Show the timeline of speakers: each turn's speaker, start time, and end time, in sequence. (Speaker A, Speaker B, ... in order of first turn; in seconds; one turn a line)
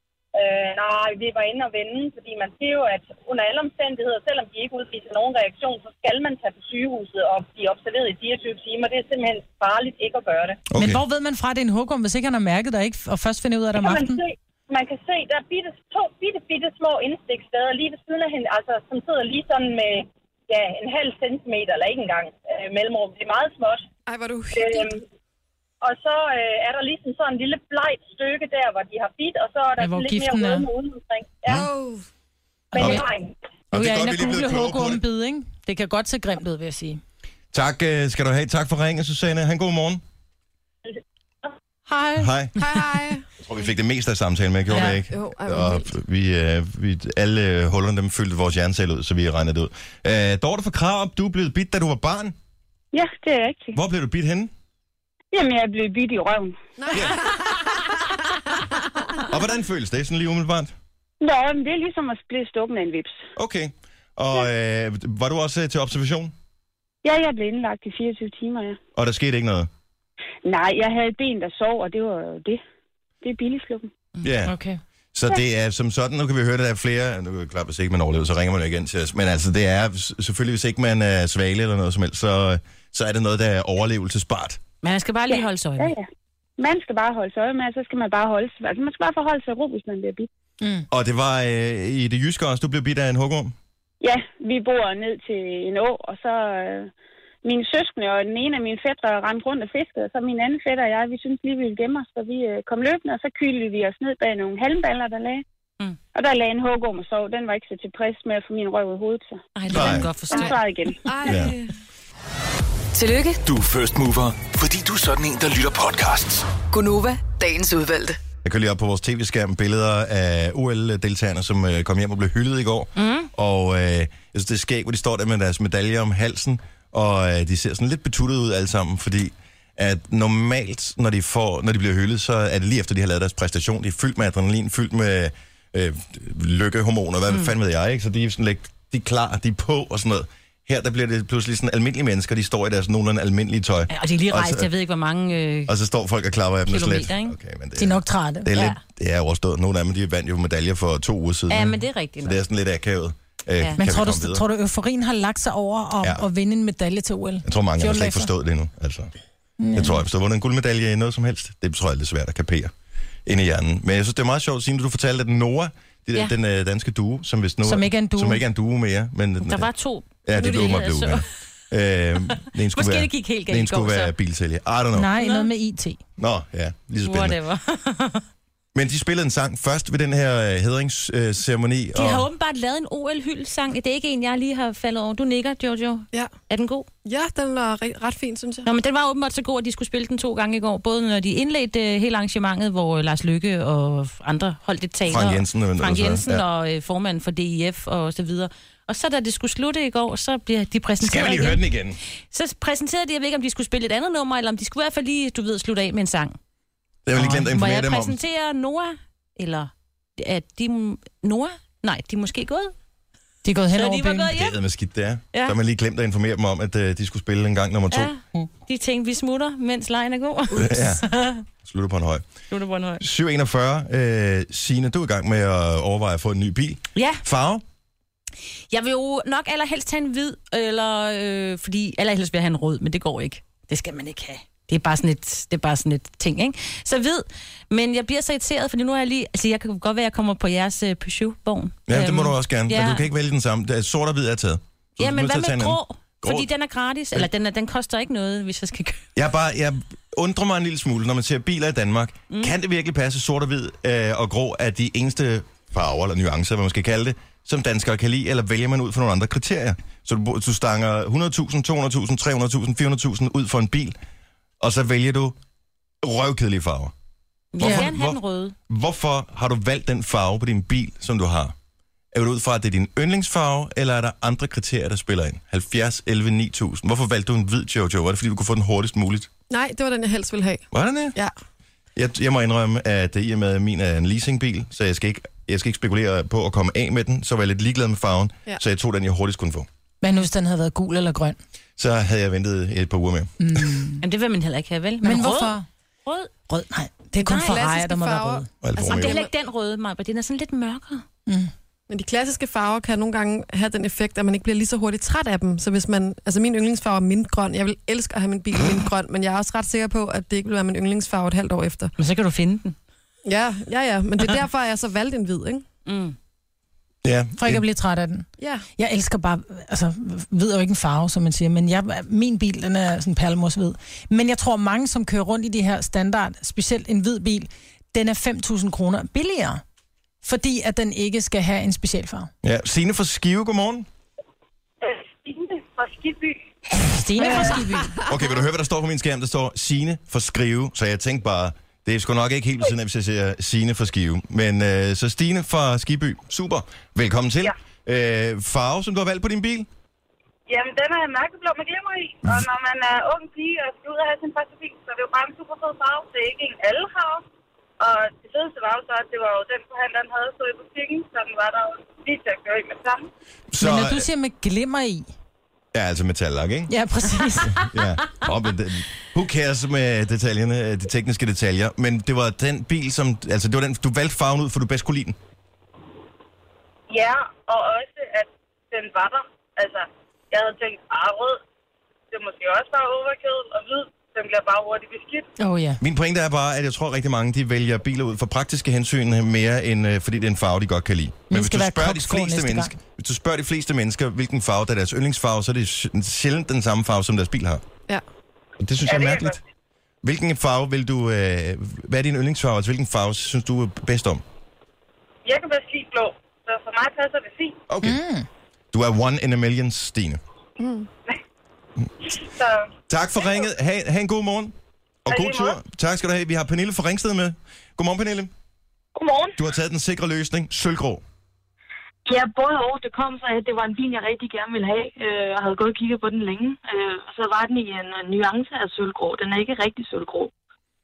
Speaker A: 0.3-10.6
Speaker B: 10.7-11.0
Speaker C: 10.7-14.2
Speaker A: 13.8-23.9
Speaker D: 24.1-24.9
Speaker A: 24.5-25.0
Speaker A: 25.8-31.7
Speaker C: 29.8-30.7
Speaker D: 31.5-32.0
Speaker C: 32.7-33.0
Speaker A: 32.7-33.3
Speaker B: 33.7-35.0
Speaker C: 33.7-37.0
Speaker B: 37.5-40.0
Speaker C: 41.9-42.3
Speaker B: 42.2-42.6
Speaker D: 42.6-43.2
Speaker B: 43.4-52.3
Speaker D: 44.8-45.9
Speaker E: 52.9-53.8
Speaker B: 53.7-54.5
Speaker E: 55.3-56.6
Speaker D: 56.8-57.8
Speaker B: 56.9-57.2
Speaker B: 59.3-60.7
Speaker E: 61.2-63.2
Speaker B: 63.4-66.3
Speaker E: 67.0-68.8
Speaker B: 68.9-69.7
Speaker E: 70.4-72.6
Speaker E: 73.2-73.9
Speaker B: 74.2-74.5
Speaker C: 74.5-74.8
Speaker B: 75.1-84.6
Speaker F: 84.8-85.9
Speaker E: 85.3-86.1
Speaker E: 86.6-90.3
Speaker C: 90.6-90.9
Speaker B: 90.9-93.5
Speaker E: 94.0-96.9
Speaker E: 97.4-105.4
Speaker E: 106.1-111.1
Speaker F: 109.5-110.9
Speaker B: 109.7-110.1
Speaker D: 110.3-111.7
Speaker B: 111.2-111.5
Speaker G: 112.9-113.4
Speaker H: 113.4-116.5
Speaker G: 116.7-118.2
Speaker B: 118.4-144.7
Speaker F: 123.0-123.3
Speaker F: 143.9-145.7
Speaker B: 145.7-154.4
Speaker F: 146.7-147.3
Speaker C: 147.8-148.5
Speaker F: 148.5-148.8
Speaker F: 151.5-152.4
Speaker C: 153.8-158.3
Speaker B: 157.4-159.1
Speaker C: 159.6-160.0
Speaker B: 159.7-162.7
Speaker B: 163.2-169.7
Speaker C: 167.6-168.4
Speaker F: 169.4-171.3
Speaker B: 170.2-175.1
Speaker F: 172.3-174.1
Speaker C: 174.9-176.0
Speaker F: 175.2-175.5
Speaker B: 176.2-177.4
Speaker F: 177.0-178.2
Speaker B: 178.7-182.3
Speaker F: 181.9-186.9
Speaker D: 187.0-188.7
Speaker F: 188.6-201.6
Speaker B: 195.1-196.4
Speaker B: 201.0-202.0
Speaker F: 202.3-206.4
Speaker B: 207.1-208.2
Speaker F: 207.2-212.7
Speaker C: 213.4-214.3
Speaker F: 213.7-214.6
Speaker B: 214.3-218.1
Speaker F: 217.9-221.4
Speaker B: 220.5-221.1
Speaker B: 221.6-222.2
Speaker F: 222.5-223.0
Speaker B: 223.0-227.6
Speaker F: 226.9-227.2
Speaker F: 228.7-243.1
Speaker B: 241.9-246.5
Speaker F: 245.0-249.0
Speaker B: 249.2-263.9
Speaker B: 264.6-265.4
Speaker B: 266.0-266.9
Speaker F: 267.5-268.5
Speaker B: 267.6-271.5
Speaker C: 267.6-267.9
Speaker B: 272.1-279.3
Speaker D: 279.5-281.3
Speaker B: 280.7-281.1
Speaker B: 281.9-289.7
Speaker C: 290.0-291.4
Speaker B: 291.8-293.7
Speaker C: 293.4-294.0
Speaker F: 294.0-296.3
Speaker C: 295.0-295.6
Speaker C: 296.5-298.5
Speaker F: 297.2-297.6
Speaker D: 297.2-299.3
Speaker B: 298.6-299.2
Speaker F: 298.9-301.0
Speaker C: 301.2-301.5
Speaker D: 301.9-311.9
Speaker F: 312.0-312.7
Speaker D: 313.2-315.6
Speaker F: 315.9-316.1
Speaker B: 317.0-317.6
Speaker C: 317.4-329.6
Speaker D: 318.4-318.6
Speaker C: 330.2-332.3
Speaker B: 332.4-333.9
Speaker A: 334.8-336.4
Speaker C: 336.7-338.0
Speaker A: 337.2-337.6
Speaker B: 338.1-349.7
Speaker A: 350.5-357.2
Speaker A: 357.8-363.0
Speaker B: 363.5-364.1
Speaker C: 363.6-365.1
Speaker B: 365.7-366.7
Speaker C: 366.7-367.8
Speaker B: 367.5-375.2
Speaker A: 376.9-381.4
Speaker A: 382.1-385.2
Speaker C: 385.4-385.8
Speaker B: 385.8-397.6
Speaker C: 391.3-392.7
Speaker B: 398.6-399.4
Speaker A: 398.9-399.4
Speaker B: 400.0-404.2
Speaker A: 405.2-407.5
Speaker B: 407.7-408.0
Speaker C: 407.8-408.3
Speaker B: 408.7-410.2
Speaker D: 410.6-410.9
Speaker A: 412.1-412.6
Speaker B: 412.9-414.5
Speaker B: 415.1-418.3
Speaker A: 415.1-415.5
Speaker I: 418.9-419.4
Speaker B: 419.4-421.0
Speaker I: 422.1-430.3